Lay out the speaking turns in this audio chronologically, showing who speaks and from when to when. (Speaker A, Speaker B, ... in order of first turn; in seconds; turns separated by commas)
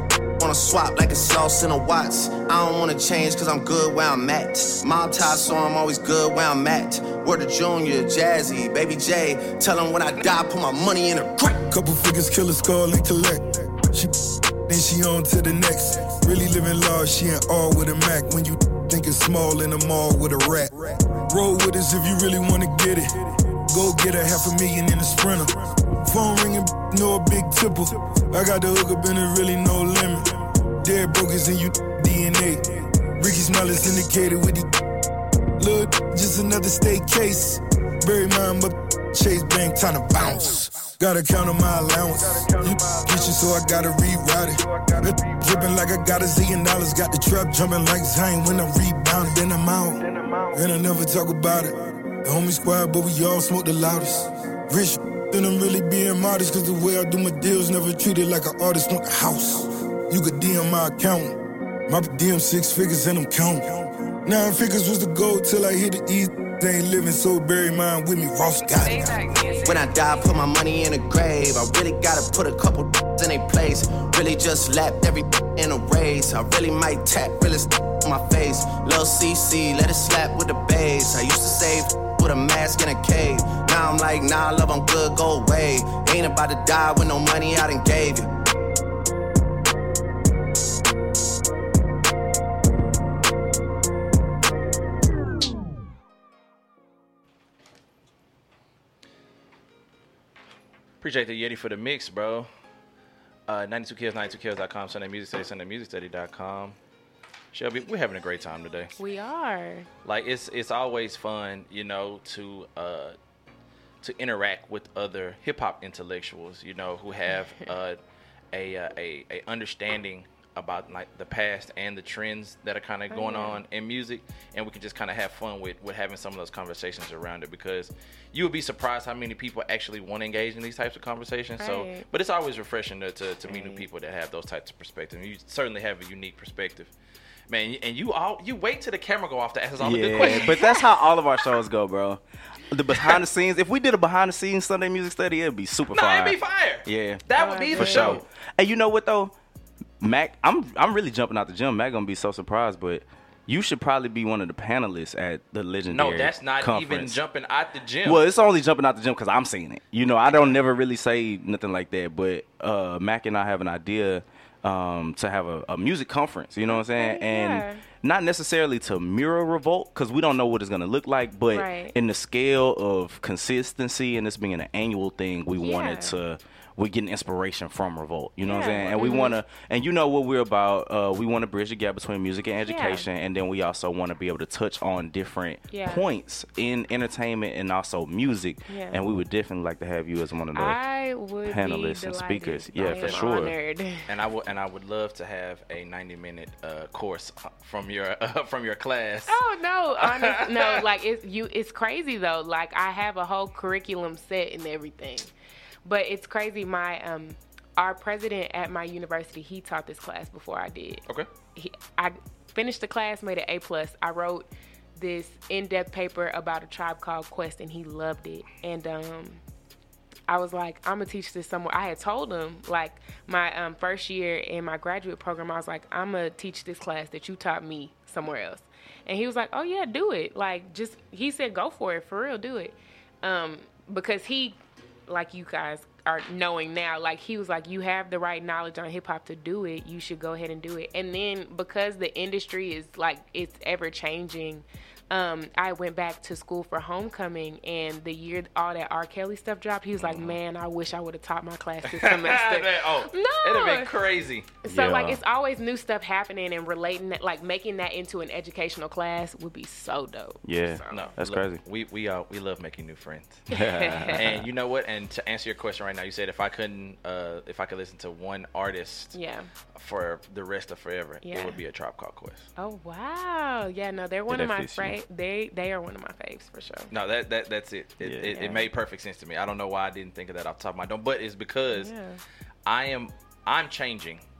Speaker A: 0.4-11.6, Speaker B: 11.5-14.1, Speaker B: 14.7-34.7, Speaker B: 35.6-69.2, Speaker C: 68.8-69.8, Speaker A: 69.6-88.3, Speaker D: 101.0-102.5, Speaker D: 103.5-106.8, Speaker D: 107.5-108.9, Speaker C: 109.0-109.9, Speaker D: 110.0-113.2, Speaker D: 114.0-118.0, Speaker C: 117.3-117.7, Speaker D: 118.5-136.9, Speaker C: 123.1-123.6, Speaker C: 131.6-132.0, Speaker C: 133.4-133.8, Speaker D: 137.5-140.6, Speaker E: 139.8-147.2, Speaker C: 140.2-140.8, Speaker D: 145.9-148.2, Speaker C: 147.4-148.2, Speaker E: 147.7-149.3, Speaker E: 150.0-157.2, Speaker D: 155.9-158.2, Speaker E: 158.0-190.8, Speaker C: 166.7-167.8, Speaker C: 171.5-171.9, Speaker C: 175.6-176.2, Speaker C: 178.4-179.3, Speaker C: 182.7-183.1, Speaker C: 185.7-186.0, Speaker C: 188.7-189.0, Speaker C: 190.5-194.0, Speaker E: 191.4-193.5, Speaker D: 192.8-193.4, Speaker D: 194.1-199.4, Speaker C: 199.3-205.3, Speaker D: 200.0-200.8, Speaker C: 205.8-211.0, Speaker C: 211.5-219.4, Speaker C: 220.3-234.6, Speaker C: 235.1-253.9, Speaker D: 250.0-250.4, Speaker D: 251.9-254.5, Speaker C: 254.6-261.0, Speaker E: 254.6-255.2, Speaker E: 260.4-261.6, Speaker D: 260.9-263.4, Speaker E: 263.5-264.4, Speaker C: 263.5-264.2, Speaker D: 264.1-269.1, Speaker C: 269.1-269.4, Speaker D: 269.7-272.5, Speaker C: 271.2-271.6, Speaker C: 272.6-276.9, Speaker E: 274.3-275.0, Speaker D: 276.9-281.9, Speaker E: 278.0-278.3, Speaker C: 278.3-278.6, Speaker C: 281.8-282.2, Speaker D: 282.6-284.2